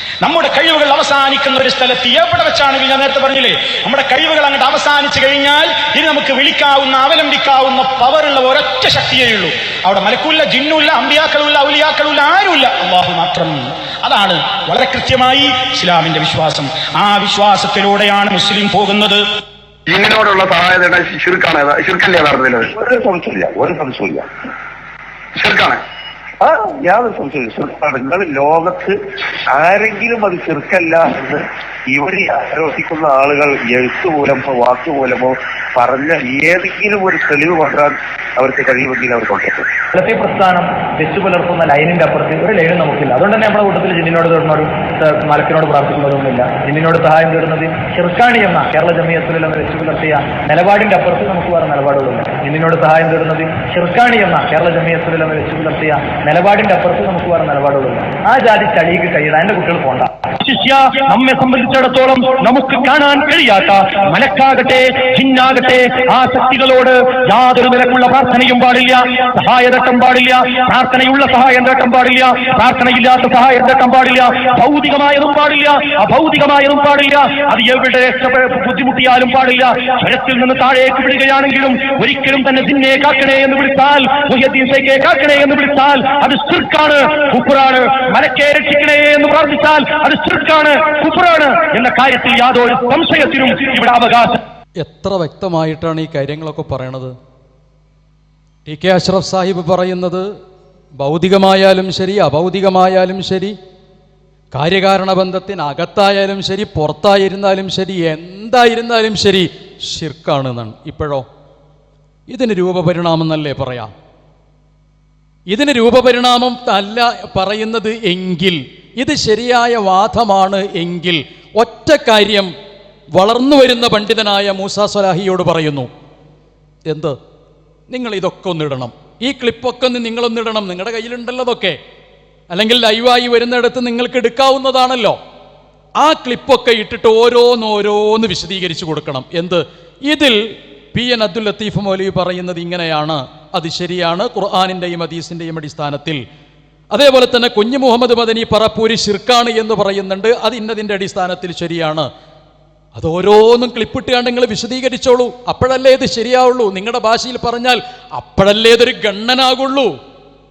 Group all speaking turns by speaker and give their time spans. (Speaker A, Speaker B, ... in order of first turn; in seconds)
Speaker A: 0.2-19.2
Speaker B: 19.9-22.7, 25.3-25.8
Speaker C: 22.7-24.3, 26.4-29.0, 29.5-39.7
Speaker D: 39.9-60.1
Speaker E: 60.4-94.4
Speaker F: 94.8-97.1, 98.7-100.2, 101.0-103.5, 104.5-111.2, 112.3-113.9, 115.5-122.5, 123.1-125.9, 126.9-127.2, 127.9-131.8, 132.5-135.2, 136.0-140.4, 140.9-146.2, 146.9-152.1, 152.9-159.9